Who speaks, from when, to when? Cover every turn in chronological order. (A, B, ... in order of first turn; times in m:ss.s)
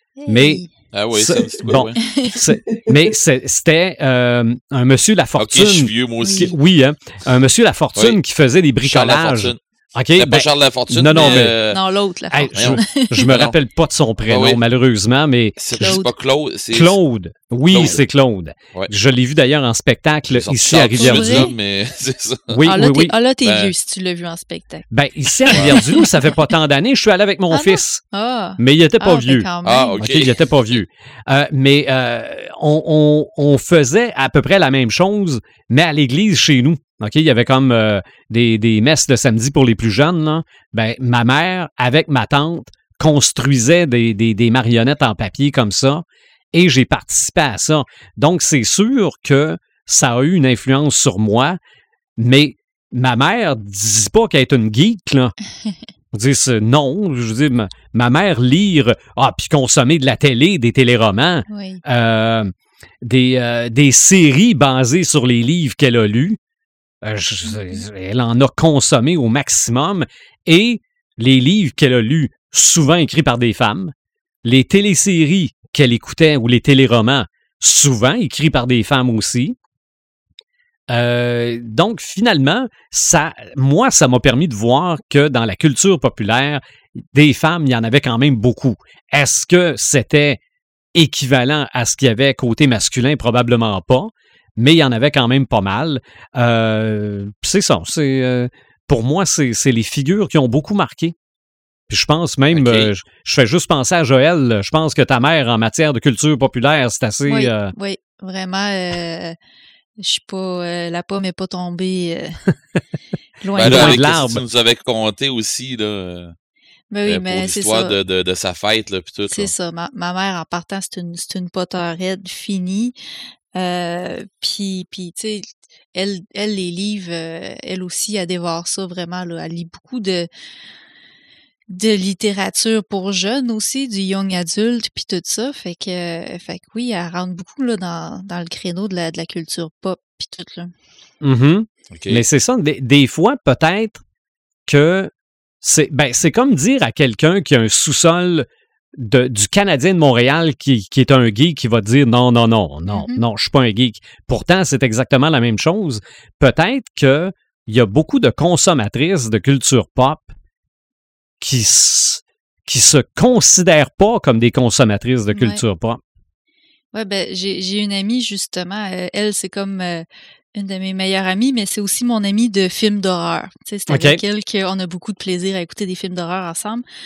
0:00.2-0:00.7 A
0:00.3-0:00.6 B
0:00.9-0:02.0 C
0:01.1-0:11.5 B
0:02.0-0:02.4 A
0:05.4-0:06.6 C
0:06.2-0:06.5 A
0:08.8-0:09.6 C
0:10.2-0:11.8 C
0:11.1-0:13.3 A
0:12.3-0:16.0 B
0:12.5-0:13.5 C
0:14.3-0:14.6 C
0:15.6-0:17.0 C
0:15.8-0:16.1 A
0:16.7-0:21.5 B
0:17.7-0:18.0 C
0:20.3-0:22.7 C
0:20.9-0:21.5 A
0:22.5-0:23.1 B
0:22.6-0:24.9 A
0:23.4-0:23.7 C
0:24.9-0:28.0 B
0:25.4-0:26.1 A
0:25.5-0:25.8 C
0:27.5-0:30.0 A
0:28.6-0:29.5 B
0:29.6-0:30.8 C
0:30.0-0:51.6 B
0:52.2-0:55.3 B
0:56.1-1:06.4 B
1:01.5-1:01.8 A
1:07.0-1:13.9 B
1:07.4-1:07.8 A
1:14.4-1:19.6 B
1:20.9-1:30.4 B
1:30.9-1:41.1 B
1:41.9-1:47.7 B
1:42.5-1:42.9 C
1:47.3-1:49.4 A
1:50.0-1:52.4 A
1:53.4-1:54.0 A
1:53.6-1:56.3 C
1:53.6-1:54.4 B
1:56.9-1:58.0 A
1:57.0-1:59.5 C
1:59.3-2:02.9 A
2:03.6-2:10.3 A
2:11.7-2:20.7 A
2:21.2-2:24.0 B
2:21.9-2:22.2 C
2:24.7-2:25.1 B
2:25.6-2:28.4 B
2:29.0-2:40.3 B
2:32.9-2:33.2 A
2:41.4-2:46.0 B
2:45.3-2:45.6 A
2:46.9-2:56.8 A
2:53.9-2:54.2 B